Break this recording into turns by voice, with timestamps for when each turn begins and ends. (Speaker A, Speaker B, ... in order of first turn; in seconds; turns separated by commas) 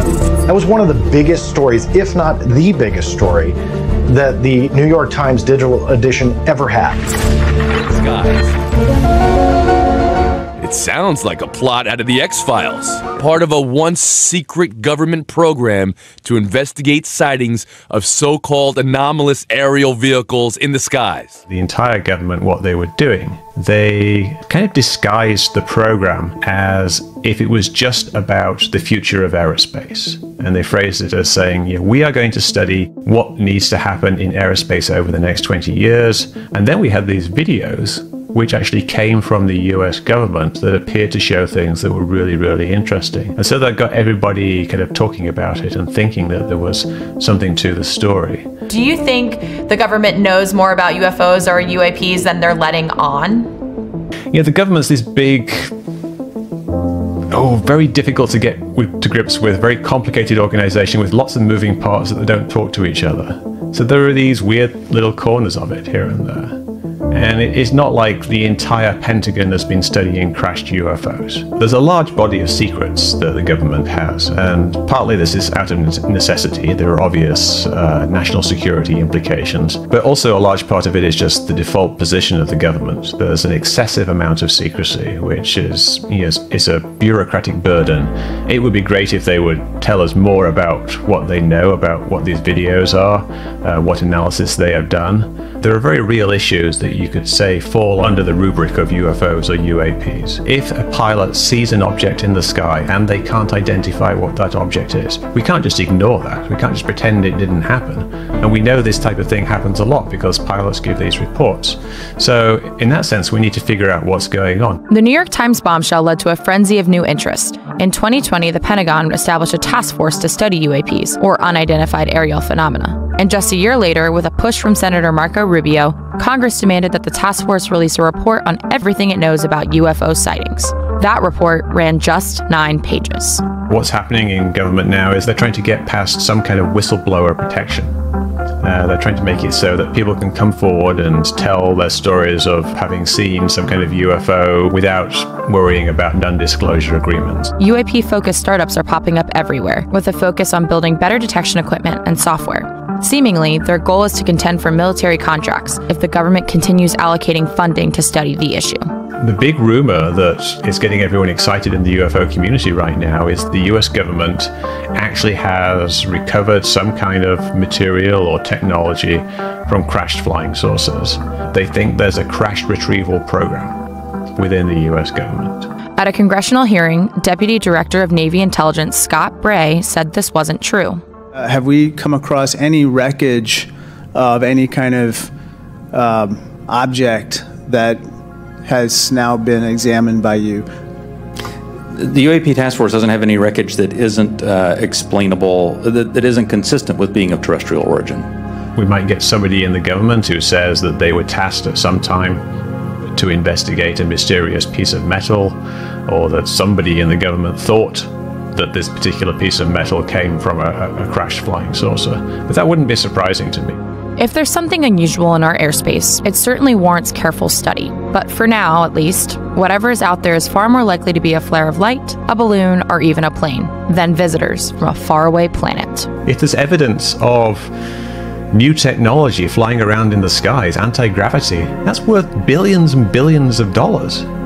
Speaker A: 0.5-3.6, Speaker A: 4.1-7.0, Speaker B: 7.9-8.5, Speaker B: 10.6-21.4, Speaker C: 21.5-48.5, Speaker D: 48.7-53.5, Speaker C: 54.3-55.7, Speaker C: 57.3-114.8, Speaker D: 114.9-133.4, Speaker C: 133.7-137.9, Speaker C: 138.6-147.6, Speaker D: 147.6-158.9, Speaker C: 159.2-173.8, Speaker C: 174.4-175.7, Speaker D: 176.0-181.0, Speaker E: 181.3-185.3, Speaker E: 185.9-188.0, Speaker E: 188.7-190.7, Speaker F: 191.9-198.3, Speaker C: 198.8-202.4, Speaker C: 203.0-213.8, Speaker D: 214.2-226.1, Speaker C: 226.2-227.7, Speaker C: 228.5-234.3